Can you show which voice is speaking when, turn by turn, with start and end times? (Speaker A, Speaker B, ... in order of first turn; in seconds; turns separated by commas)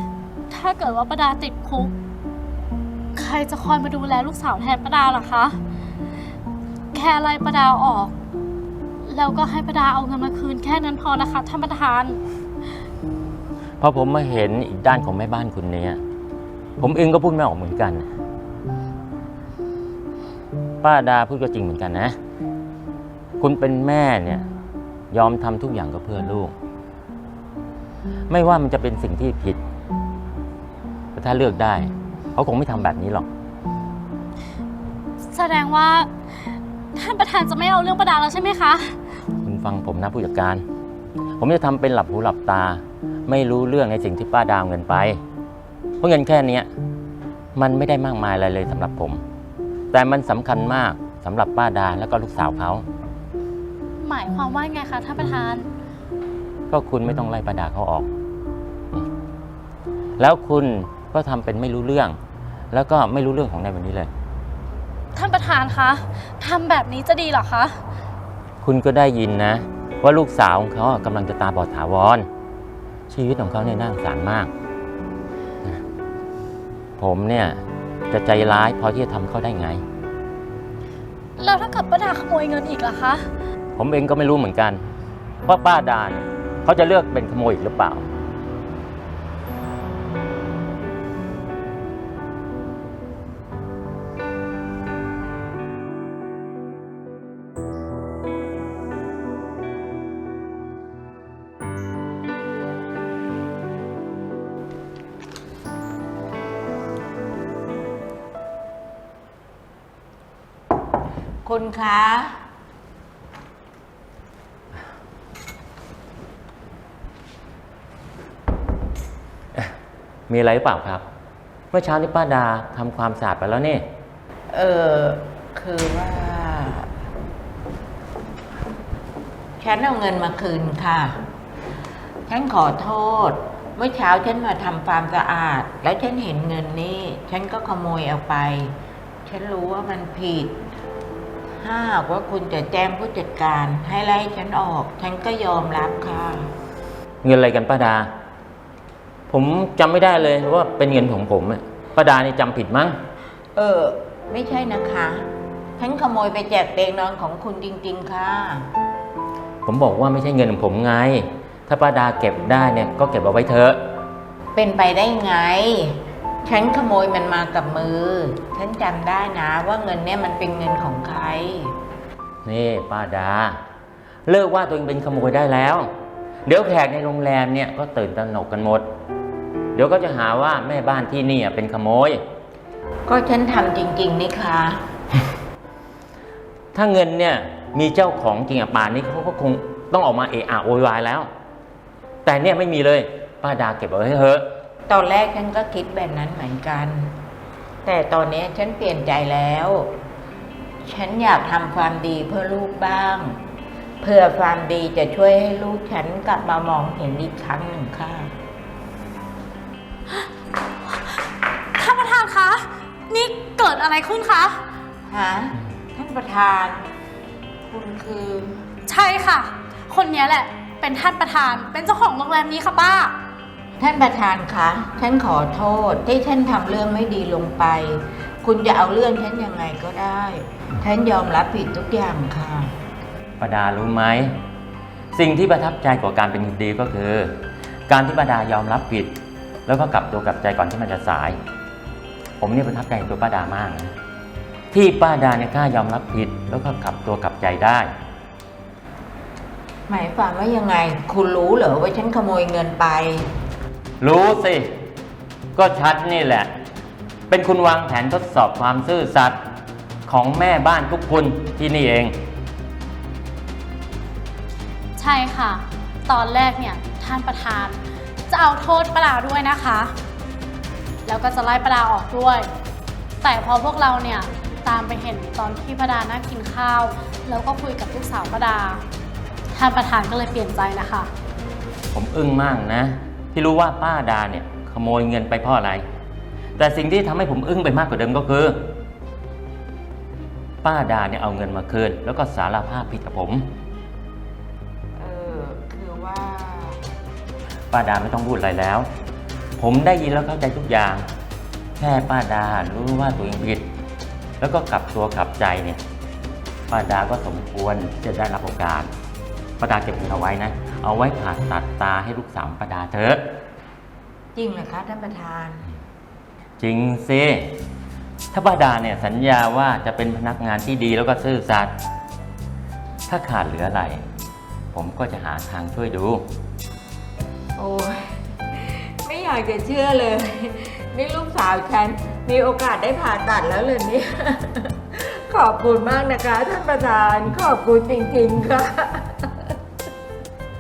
Speaker A: 0.5-1.9, Speaker A: 3.1-5.6, Speaker A: 6.9-8.1, Speaker A: 9.0-12.2, Speaker B: 13.8-16.0, Speaker B: 16.8-18.1, Speaker B: 20.8-22.2, Speaker B: 23.4-24.4, Speaker B: 25.1-26.5, Speaker B: 28.3-29.6, Speaker B: 31.1-33.3, Speaker A: 35.3-39.0, Speaker B: 39.4-40.6, Speaker B: 41.4-45.2, Speaker B: 46.0-46.7, Speaker B: 47.6-49.2, Speaker B: 49.9-52.9, Speaker A: 54.0-55.6, Speaker B: 56.7-58.1, Speaker B: 60.2-62.2, Speaker B: 62.7-64.1, Speaker A: 65.2-67.8, Speaker B: 68.6-72.3, Speaker B: 73.1-74.5, Speaker B: 77.0-79.8, Speaker A: 81.4-83.3, Speaker B: 83.8-84.8, Speaker B: 85.5-88.1, Speaker C: 111.4-112.4, Speaker B: 120.3-121.0, Speaker B: 121.7-123.9, Speaker C: 124.5-126.9, Speaker C: 129.6-131.2, Speaker C: 132.3-140.6, Speaker C: 141.6-146.5, Speaker B: 147.2-148.1, Speaker B: 149.3-153.0, Speaker C: 153.6-158.7, Speaker B: 159.7-163.8, Speaker C: 164.6-171.8, Speaker B: 172.4-173.6, Speaker B: 174.3-175.9, Speaker B: 176.5-178.9, Speaker B: 179.8-182.2, Speaker C: 183.1-184.8, Speaker B: 186.7-191.3, Speaker B: 192.2-194.5, Speaker C: 194.9-197.2, Speaker C: 197.8-200.0, Speaker C: 200.8-203.4, Speaker C: 204.0-208.3, Speaker A: 211.8-214.6, Speaker C: 215.1-216.8, Speaker C: 217.7-218.6, Speaker A: 218.9-223.2, Speaker C: 223.8-232.8, Speaker B: 233.4-234.3, Speaker B: 235.1-237.4, Speaker B: 237.9-239.1, Speaker B: 239.7-241.4, Speaker B: 242.4-243.9, Speaker B: 244.7-247.9, Speaker C: 249.9-253.3, Speaker B: 254.0-254.7, Speaker B: 255.6-256.5, Speaker B: 257.3-259.4, Speaker B: 260.1-262.1, Speaker A: 265.0-269.9, Speaker A: 271.1-272.5, Speaker A: 273.2-278.8, Speaker A: 279.5-281.1, Speaker B: 281.9-285.9, Speaker B: 286.6-288.7, Speaker B: 290.6-293.5, Speaker C: 295.0-296.8, Speaker B: 297.7-298.9, Speaker B: 299.6-301.1, Speaker B: 301.8-303.7, Speaker B: 304.4-305.8, Speaker B: 306.7-308.9, Speaker B: 309.6-313.2, Speaker C: 314.4-315.6, Speaker B: 316.6-317.6, Speaker B: 318.3-321.7, Speaker B: 323.1-324.1, Speaker B: 324.7-326.2, Speaker C: 327.6-339.6